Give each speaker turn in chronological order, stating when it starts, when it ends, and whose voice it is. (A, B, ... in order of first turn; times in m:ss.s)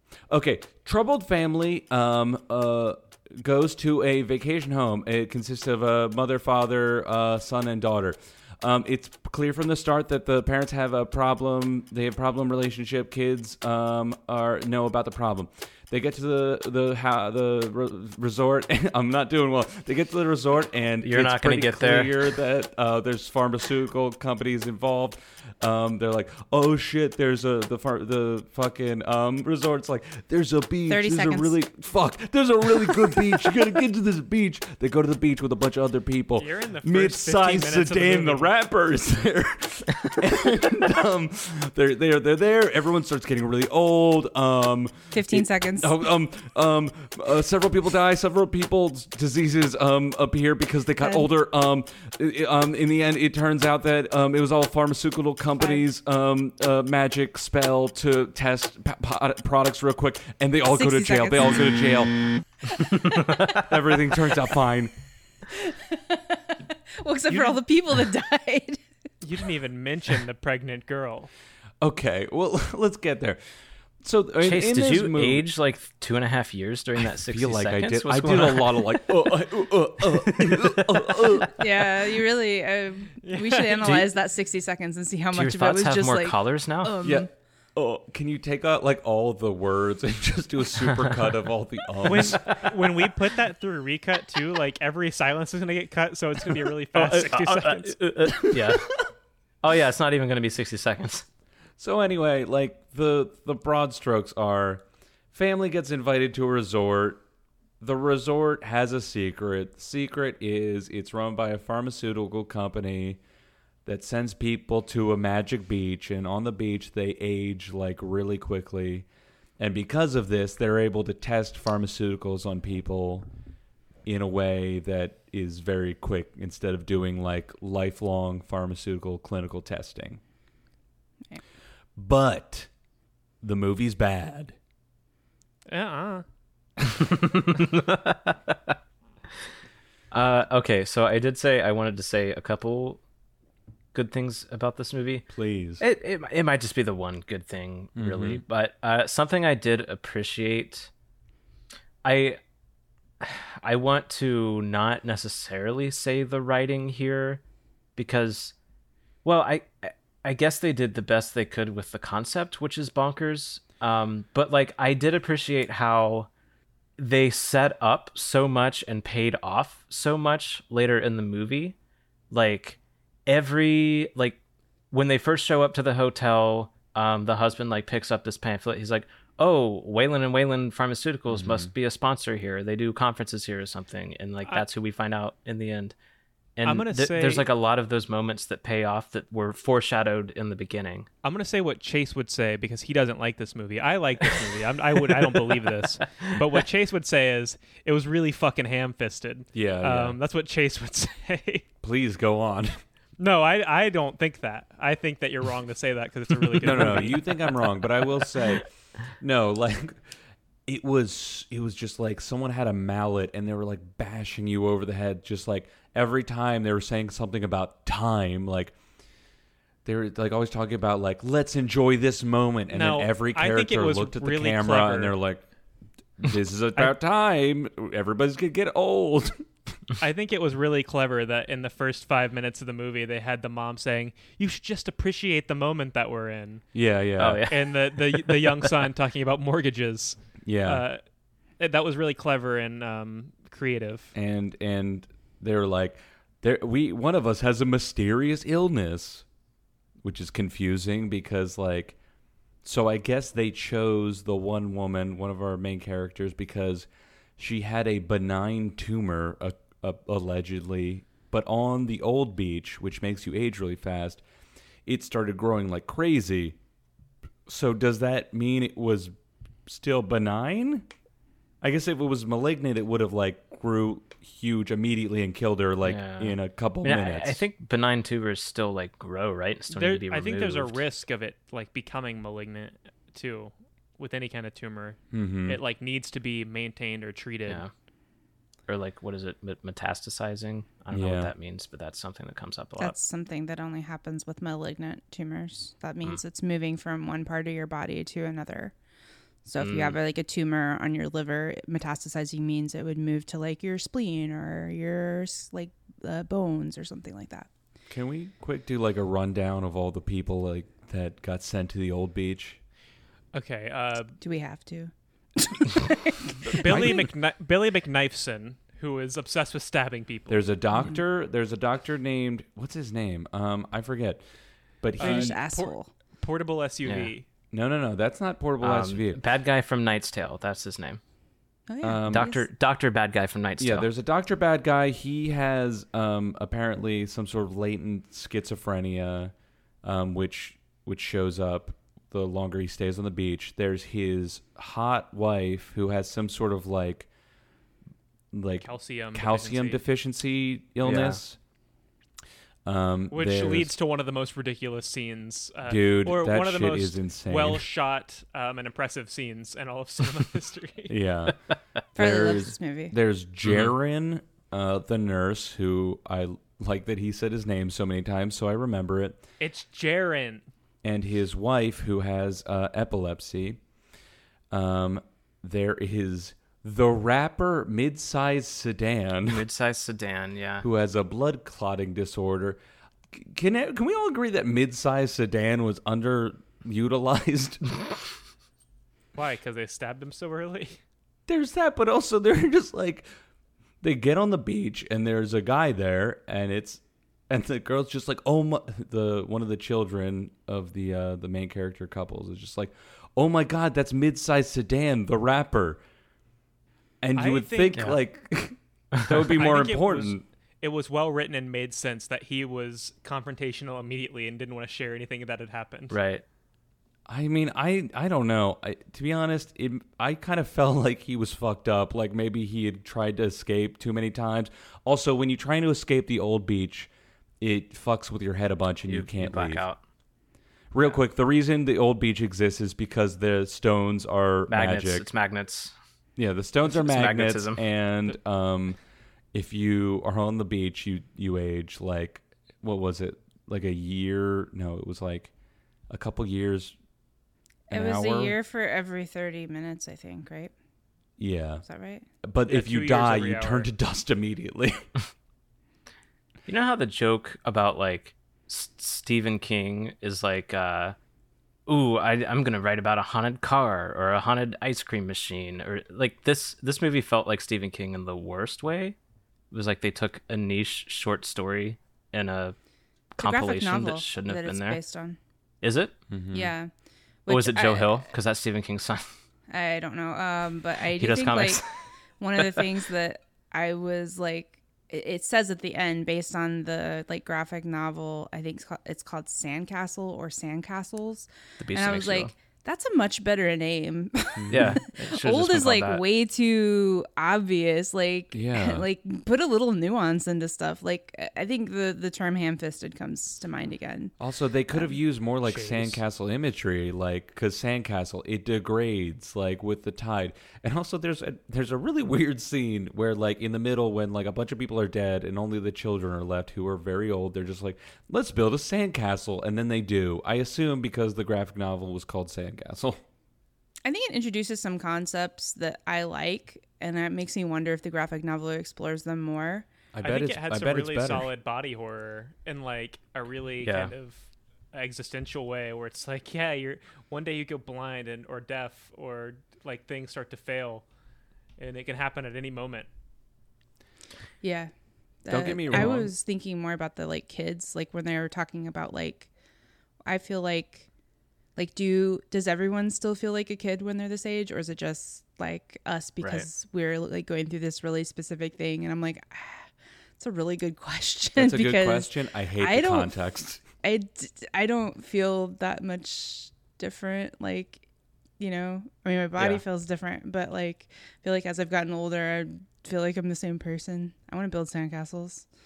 0:00.3-1:02.2 A
0:21.0-0:22.3 B
0:30.9-0:31.5 C
0:36.4-0:38.5 D
0:45.1-0:45.9 C
0:51.0-0:51.3 C
1:00.7-1:01.7 C
1:02.9-1:03.4 C
1:03.5-1:04.9 A
1:05.6-1:08.8 C
1:07.3-1:07.6 D
1:09.2-1:11.3 D
1:11.8-1:13.4 A
1:14.0-1:15.5 A
1:14.4-1:19.0 B
1:17.3-1:21.8 A
1:21.5-1:27.3 C
1:23.2-1:24.0 D
1:23.8-1:24.1 A
1:25.3-1:27.0 B
1:27.0-1:32.7 A
1:32.0-1:38.0 D
1:32.4-1:32.6 B
1:36.7-1:38.9 B
1:38.5-1:38.8 A
1:39.6-1:41.2 B
1:41.8-1:47.2 A
1:47.8-1:53.2 A
1:53.8-1:59.1 A
1:59.6-2:03.3 A
2:04.0-2:10.2 A
2:12.0-2:12.7 A
2:13.4-2:14.6 A
2:15.7-2:16.2 D
2:16.8-2:18.8 B
2:20.1-2:23.0 B
2:23.9-2:25.3 B
2:25.3-2:25.8 A
2:25.8-2:30.9 B
2:28.0-2:28.4 A
2:32.0-2:32.4 B
2:33.2-2:37.4 B
2:38.0-2:38.5 B
2:39.2-2:46.3 B
2:47.0-2:51.8 B
2:52.3-2:54.4 B
2:54.9-3:06.0 B
3:01.3-3:01.7 A
3:06.6-3:11.1 B
3:06.6-3:07.5 D
3:11.2-3:21.7 D
3:15.1-3:15.5 B
3:16.0-3:16.4 B
3:19.6-3:20.2 A
3:21.8-3:22.8 A
3:23.2-3:27.5 D
3:26.6-3:28.7 A
3:26.7-3:27.0 B
3:29.2-3:30.0 A
3:30.7-3:38.8 A
3:39.8-3:45.4 A
3:42.7-3:45.2 D
3:46.2-3:49.4 A
3:50.0-3:56.6 D
3:56.7-3:57.4 A
3:57.2-3:58.7 B
3:57.5-4:01.0 D
4:00.4-4:00.8 A
4:01.6-4:04.1 D
4:04.1-4:09.2 A
4:10.0-4:12.0 A
4:12.6-4:24.2 A
4:24.9-4:26.6 A
4:27.5-4:29.1 A
4:29.7-4:30.9 A
4:31.6-4:37.4 A
4:35.8-4:40.8 B
4:39.7-4:47.6 D
4:45.1-4:45.6 A
4:48.7-4:53.0 B
4:50.9-4:51.3 A
4:52.8-4:58.8 C
4:59.4-5:07.5 C
4:59.6-5:00.0 B
5:07.9-5:12.6 A
5:13.3-5:14.2 D
5:14.2-5:17.0 C
5:16.4-5:20.4 D
5:16.6-5:17.0 A
5:20.3-5:24.2 A
5:24.8-5:25.4 A
5:25.0-5:27.2 D
5:25.0-5:25.9 C
5:26.9-5:27.1 B
5:27.5-5:29.2 A
5:28.6-5:31.0 B
5:31.7-5:32.5 C
5:31.8-5:32.3 A
5:32.1-5:33.9 B
5:33.6-5:47.1 A
5:48.3-5:51.4 A
5:48.6-5:49.8 D
5:50.8-5:51.2 B
5:52.7-5:53.7 A
5:53.1-6:00.9 D
5:55.6-5:57.6 A
6:00.9-6:01.4 A
6:01.9-6:09.2 A
6:02.0-6:02.9 C
6:03.4-6:03.7 B
6:09.4-6:10.5 D
6:10.8-6:13.6 A
6:14.5-6:19.4 A
6:19.3-6:20.7 B
6:20.6-6:22.6 A
6:23.1-6:27.8 A
6:29.2-6:30.8 D
6:31.3-6:33.1 A
6:33.8-6:45.8 A
6:47.0-6:50.2 A
6:47.2-6:48.0 D
6:49.3-6:56.0 D
6:55.9-6:56.2 B
6:57.1-7:06.9 A
7:07.4-7:09.7 A
7:08.9-7:09.8 B
7:10.7-7:15.1 A
7:14.5-7:15.7 B
7:16.2-7:18.8 A
7:16.7-7:17.6 B
7:19.3-7:25.3 A
7:25.9-7:26.8 A
7:27.7-7:30.5 C
7:27.7-7:28.4 A
7:31.2-7:31.6 A
7:31.6-7:32.1 C
7:32.2-7:34.9 A
7:32.5-7:33.7 D
7:36.5-7:41.0 B
7:41.7-7:49.0 B
7:49.5-7:52.6 B
7:53.1-7:54.8 B
7:53.2-7:55.2 C
7:55.6-7:56.0 B
7:56.1-7:56.5 A
7:56.3-7:56.7 C
7:57.2-7:58.1 C
7:57.3-7:59.1 B
7:59.5-8:01.6 C
8:01.0-8:01.6 B
8:02.2-8:24.1 C
8:02.4-8:02.7 B
8:11.6-8:12.3 B
8:14.4-8:14.8 A
8:14.5-8:16.0 B
8:18.3-8:18.9 A
8:24.2-8:43.0 A
8:25.4-8:26.0 D
8:43.8-8:49.7 C
8:49.9-8:51.3 A
8:50.0-9:00.8 D
8:53.6-8:53.9 B
9:01.6-9:02.9 D
9:04.4-9:04.7 C
9:05.2-9:09.3 C
9:05.3-9:06.1 A
9:10.1-9:10.9 C
9:11.6-9:23.2 C
9:16.2-9:16.5 B
9:21.4-9:23.6 A
9:23.8-9:27.8 C
9:28.4-9:35.5 C
9:29.4-9:29.6 B